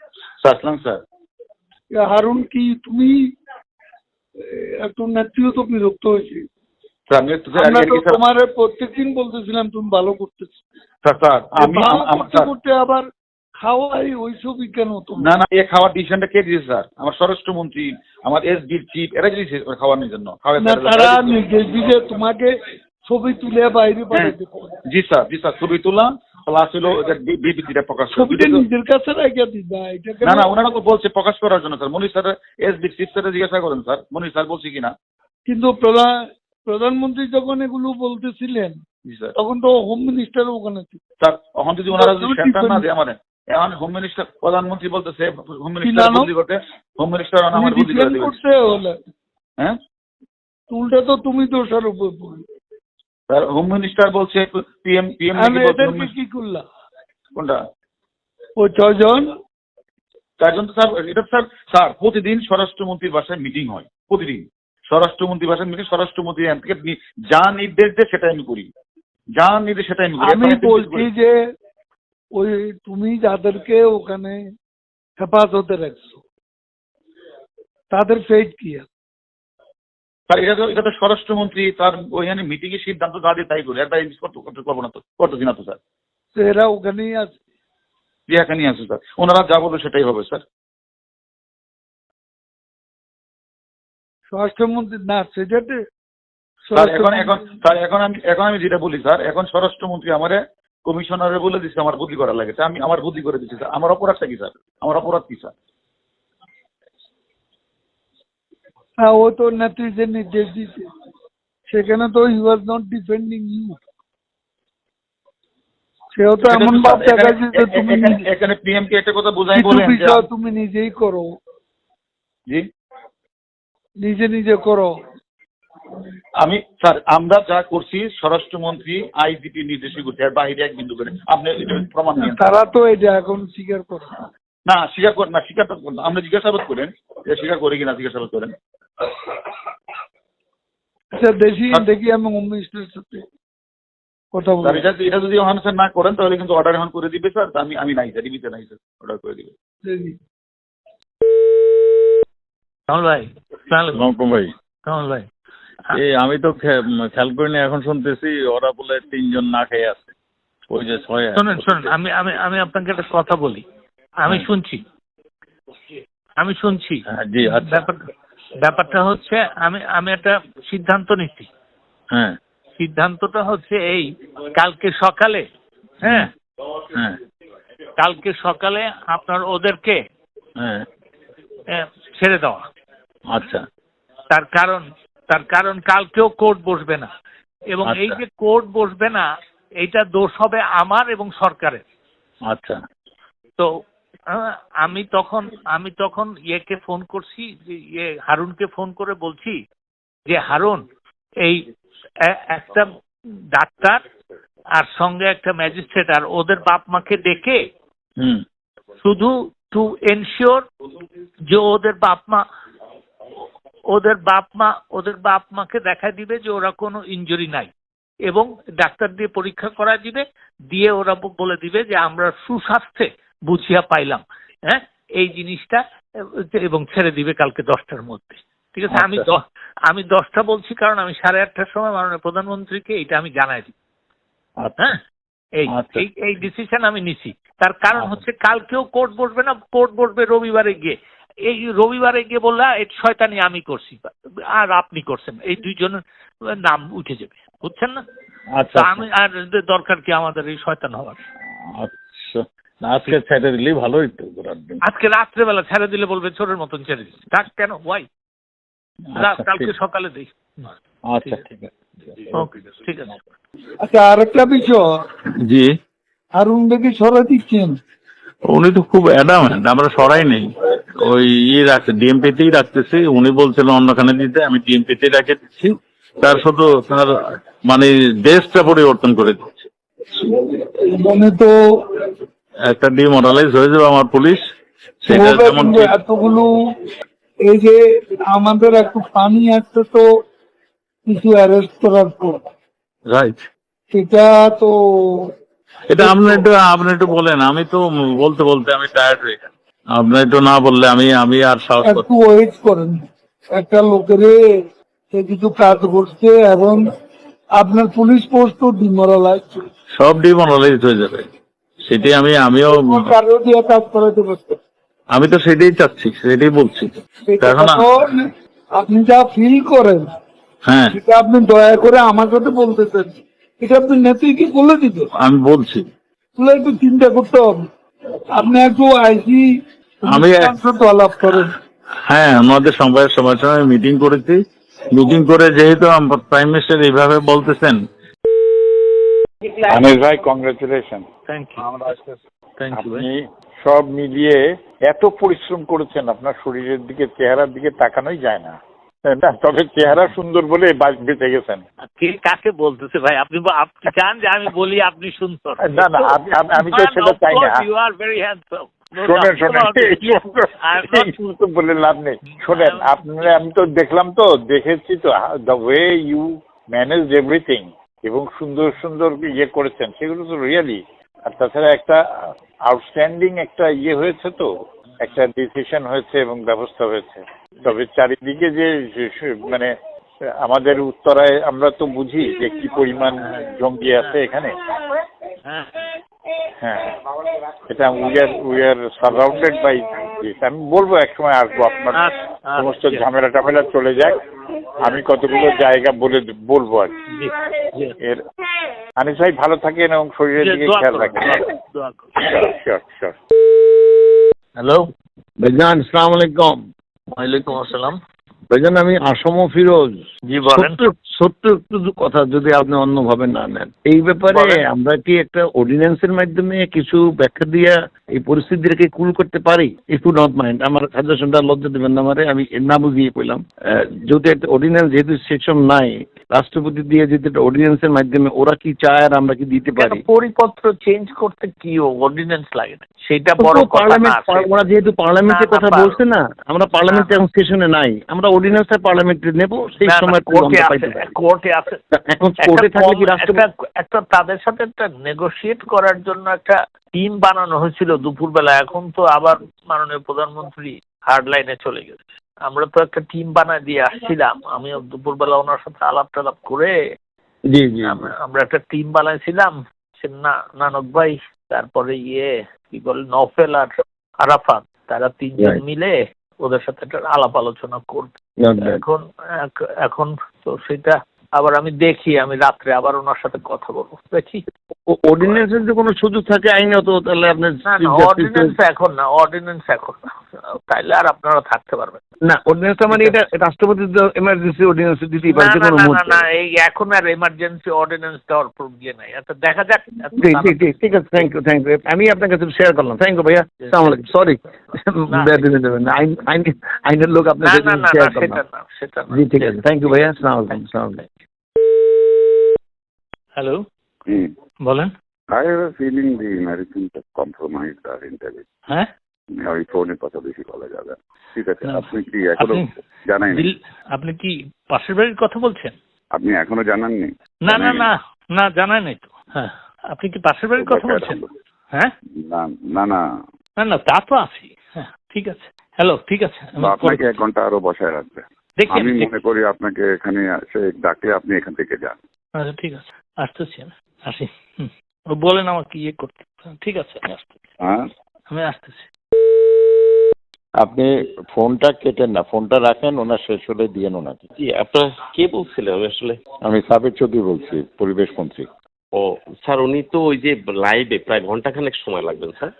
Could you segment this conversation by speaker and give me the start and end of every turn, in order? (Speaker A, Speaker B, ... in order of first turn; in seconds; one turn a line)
Speaker A: 0.4-1.0
Speaker B: 1.9-3.3
Speaker B: 4.4-6.5
Speaker A: 7.1-8.1
Speaker B: 7.5-10.6
Speaker A: 11.0-12.5
Speaker B: 11.5-13.1
Speaker B: 13.6-15.3
Speaker A: 15.2-21.4
Speaker B: 20.6-22.5
Speaker B: 23.1-24.7
Speaker A: 24.9-28.6
Speaker B: 28.1-30.5
Speaker A: 30.3-34.9
Speaker B: 35.5-38.8
Speaker A: 39.1-39.3
Speaker B: 39.4-41.0
Speaker A: 41.2-48.3
Speaker B: 41.9-42.8
Speaker B: 45.8-46.3
Speaker B: 47.5-49.0
Speaker B: 50.7-52.4
Speaker A: 53.3-56.1
Speaker B: 55.3-56.6
Speaker B: 58.6-59.3
Speaker A: 60.4-68.7
Speaker A: 69.4-71.1
Speaker B: 70.2-71.3
Speaker B: 72.3-74.4
Speaker B: 75.2-76.2
Speaker B: 77.9-78.9
Speaker A: 80.3-85.8
Speaker B: 86.3-87.3
Speaker A: 88.3-90.4
Speaker B: 94.3-95.8
Speaker B: 96.6-97.6
Speaker A: 96.8-105.5
Speaker B: 109.0-110.9
Speaker B: 111.7-113.8
Speaker B: 116.1-118.2
Speaker A: 116.4-120.2
Speaker B: 119.5-121.3
Speaker B: 124.0-124.9
Speaker A: 126.4-132.4
Speaker B: 132.2-134.2
Speaker A: 134.7-138.5
Speaker B: 141.1-143.2
Speaker B: 144.3-144.9
Speaker A: 144.6-149.5
Speaker B: 149.8-150.1
Speaker C: 152.9-154.0
Speaker D: 153.9-154.5
Speaker C: 154.8-155.2
Speaker D: 155.9-160.1
Speaker D: 160.7-161.9
Speaker C: 161.3-163.6
Speaker C: 164.2-164.8
Speaker C: 166.4-168.0
Speaker D: 167.1-167.9
Speaker C: 168.6-171.5
Speaker C: 172.8-175.4
Speaker C: 176.0-176.3
Speaker D: 176.0-176.3
Speaker C: 178.0-180.0
Speaker D: 180.6-180.8
Speaker C: 181.7-182.6
Speaker D: 183.3-183.6
Speaker C: 184.3-187.1
Speaker C: 187.7-189.3
Speaker D: 187.8-188.2
Speaker C: 189.8-191.8
Speaker D: 192.5-192.8
Speaker C: 194.3-199.6
Speaker C: 200.3-200.8
Speaker C: 202.5-202.9
Speaker C: 203.5-204.0
Speaker C: 204.8-207.6
Speaker C: 209.0-210.6
Speaker C: 211.5-212.4
Speaker C: 213.9-217.7
Speaker C: 218.3-225.8
Speaker C: 226.5-233.7
Speaker D: 228.9-229.3
Speaker D: 234.6-234.8
Speaker C: 235.6-240.9
Speaker D: 235.7-236.0
Speaker D: 237.9-238.2
Speaker C: 241.5-246.0
Speaker C: 246.5-248.0
Speaker D: 248.5-249.0
Speaker C: 248.7-251.2
Speaker D: 251.8-254.8
Speaker C: 254.8-258.1
Speaker D: 259.1-259.7
Speaker C: 259.2-260.7
Speaker D: 261.1-261.6
Speaker C: 261.2-261.5
Speaker D: 262.1-262.5
Speaker C: 262.3-263.2
Speaker B: 263.8-264.8
Speaker D: 265.4-265.7
Speaker B: 266.3-267.8
Speaker D: 268.5-277.1
Speaker D: 277.6-279.7
Speaker B: 280.2-281.6
Speaker D: 282.7-284.4
Speaker D: 285.0-285.9
Speaker B: 285.1-286.6
Speaker B: 287.4-290.2
Speaker B: 291.1-292.4
Speaker D: 293.1-293.4
Speaker B: 293.9-295.3
Speaker D: 295.9-302.1
Speaker B: 296.0-296.4
Speaker B: 301.8-303.0
Speaker B: 303.5-306.8
Speaker B: 307.5-309.6
Speaker D: 310.0-311.3
Speaker D: 311.9-313.1
Speaker B: 312.8-314.4
Speaker D: 315.1-317.9
Speaker B: 317.2-320.1
Speaker D: 320.7-321.0
Speaker B: 320.9-325.1
Speaker D: 325.2-325.9
Speaker B: 326.4-327.6
Speaker B: 328.3-331.5
Speaker D: 330.1-330.5
Speaker D: 332.1-337.8
Speaker A: 339.7-341.0
Speaker C: 341.3-341.6
Speaker C: 342.6-343.1
Speaker A: 342.7-348.6
Speaker A: 349.1-351.6
Speaker C: 351.9-361.1
Speaker A: 355.6-357.6
Speaker A: 359.0-372.0
Speaker C: 362.5-363.3
Speaker A: 372.7-374.5
Speaker A: 375.0-379.7
Speaker A: 380.4-384.5
Speaker C: 385.4-385.7
Speaker A: 386.6-386.9
Speaker A: 387.7-392.0
Speaker C: 391.9-393.0
Speaker A: 392.6-394.2
Speaker A: 394.8-396.9
Speaker C: 397.1-397.9
Speaker A: 399.0-401.3
Speaker C: 400.4-402.1
Speaker A: 402.2-403.1
Speaker C: 404.6-404.9
Speaker E: 405.4-406.6
Speaker C: 407.1-407.9
Speaker E: 408.5-430.0
Speaker C: 410.3-410.8
Speaker C: 429.8-434.6
Speaker E: 433.4-441.2
Speaker C: 435.3-436.0
Speaker C: 436.9-437.2
Speaker C: 439.8-441.8
Speaker E: 441.9-443.4
Speaker C: 442.4-456.8
Speaker E: 457.5-458.1
Speaker C: 457.8-463.7
Speaker C: 464.2-474.4
Speaker E: 468.4-468.8
Speaker E: 474.9-478.6
Speaker C: 477.7-482.0
Speaker E: 482.3-486.2
Speaker C: 482.9-483.2
Speaker C: 485.3-490.6
Speaker E: 490.1-498.4
Speaker C: 497.4-500.1
Speaker E: 499.1-501.0
Speaker C: 503.4-503.6
Speaker C: 504.6-504.9
Speaker F: 505.3-508.4
Speaker F: 509.4-513.5
Speaker C: 511.6-512.7
Speaker C: 513.3-515.7
Speaker F: 516.1-517.9
Speaker C: 517.5-521.2
Speaker F: 520.6-521.2
Speaker F: 522.3-523.0
Speaker C: 523.6-527.2
Speaker F: 526.6-532.0
Speaker C: 528.6-529.1
Speaker C: 532.4-537.4
Speaker C: 538.3-538.9
Speaker G: 540.6-544.2
Speaker H: 544.4-546.2
Speaker G: 546.4-548.5
Speaker H: 548.9-552.5